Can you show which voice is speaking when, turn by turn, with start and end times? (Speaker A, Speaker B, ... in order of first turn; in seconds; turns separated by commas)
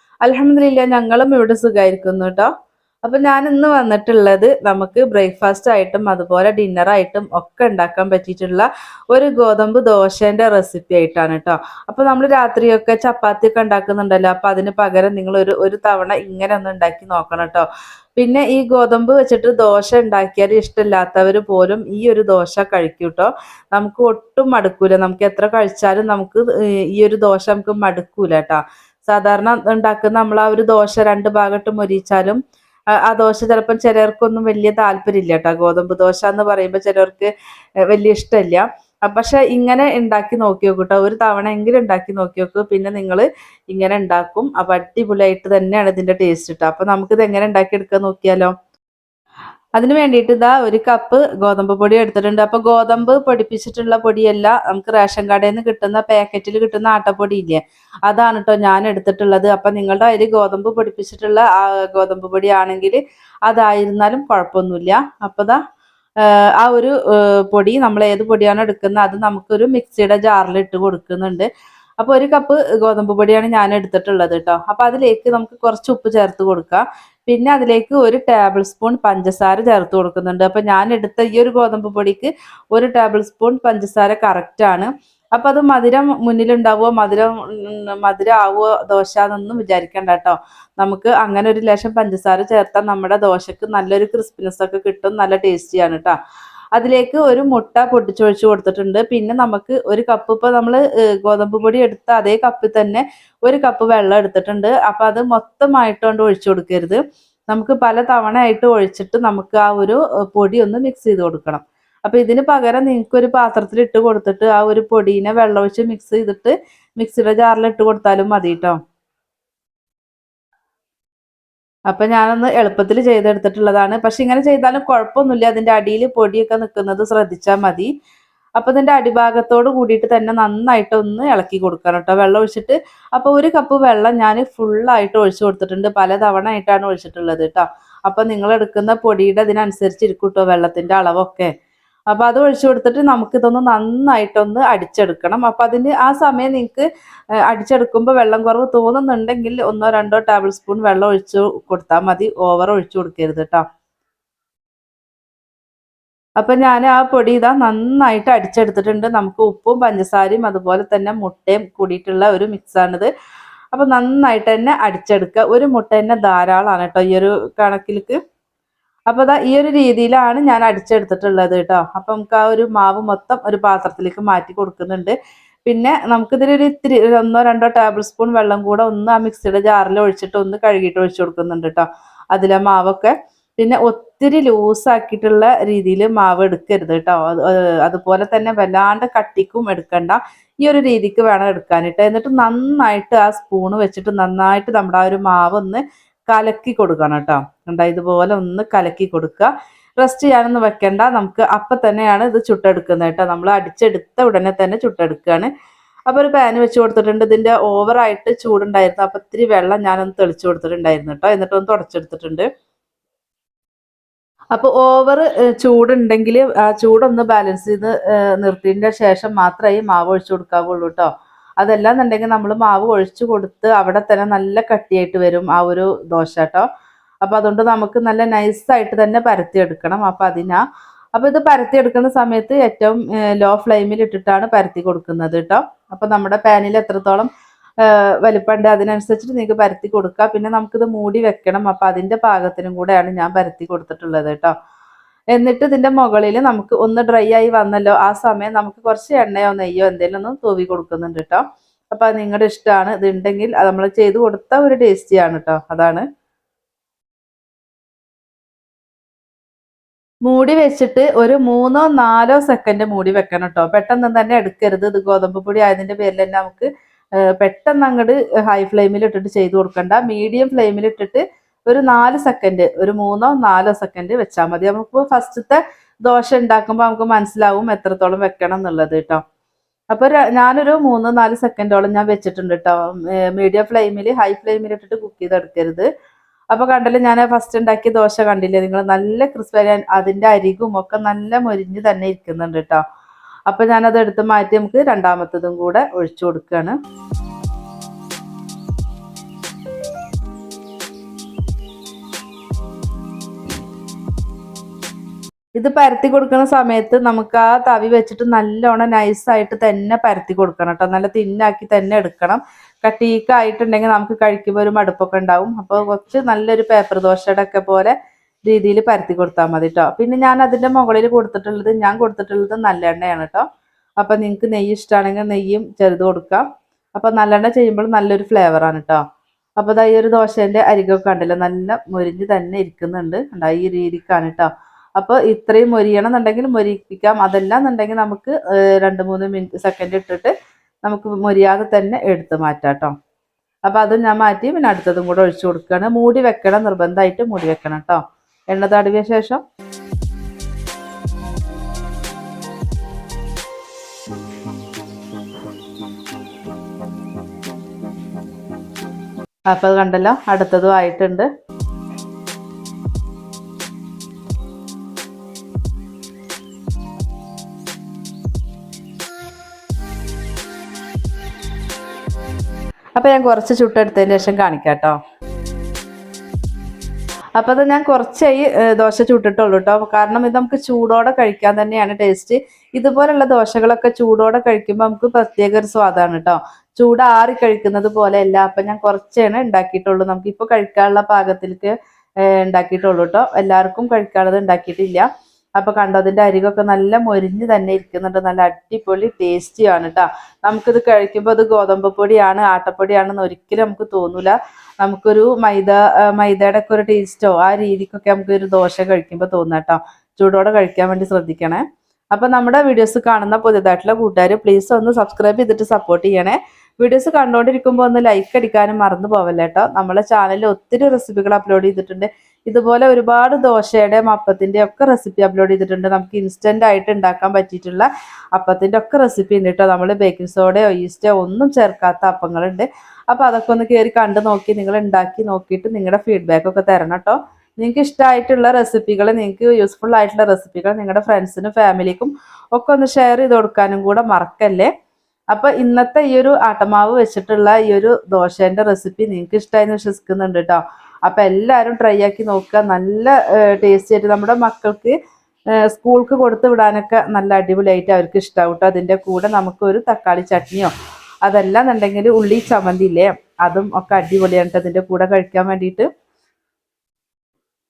Speaker A: 0.2-2.5, Speaker A: 3.0-17.6, Speaker A: 18.2-32.4, Speaker A: 33.0-37.3, Speaker A: 37.9-48.5, Speaker A: 49.8-65.6, Speaker A: 66.2-96.1, Speaker A: 96.8-118.8, Speaker A: 121.9-127.9, Speaker A: 128.6-141.5, Speaker A: 142.1-146.8, Speaker A: 147.5-153.6, Speaker A: 156.4-163.1, Speaker A: 163.7-168.2, Speaker A: 169.1-205.5, Speaker A: 206.1-212.5, Speaker A: 214.5-226.7, Speaker A: 227.2-230.6, Speaker A: 231.1-237.3, Speaker A: 237.8-244.5, Speaker A: 245.3-256.0, Speaker A: 260.2-266.7, Speaker A: 267.2-279.2, Speaker A: 279.9-285.9, Speaker A: 286.5-292.8, Speaker A: 293.5-296.8, Speaker A: 305.6-317.9, Speaker A: 318.5-323.4, Speaker A: 324.0-329.0, Speaker A: 329.6-340.3, Speaker A: 340.8-342.9, Speaker A: 343.7-349.4, Speaker A: 359.5-361.3, Speaker A: 373.0-375.0, Speaker A: 377.4-395.1, Speaker A: 395.6-444.7, Speaker A: 445.3-454.9, Speaker A: 455.6-460.7, Speaker A: 461.2-465.9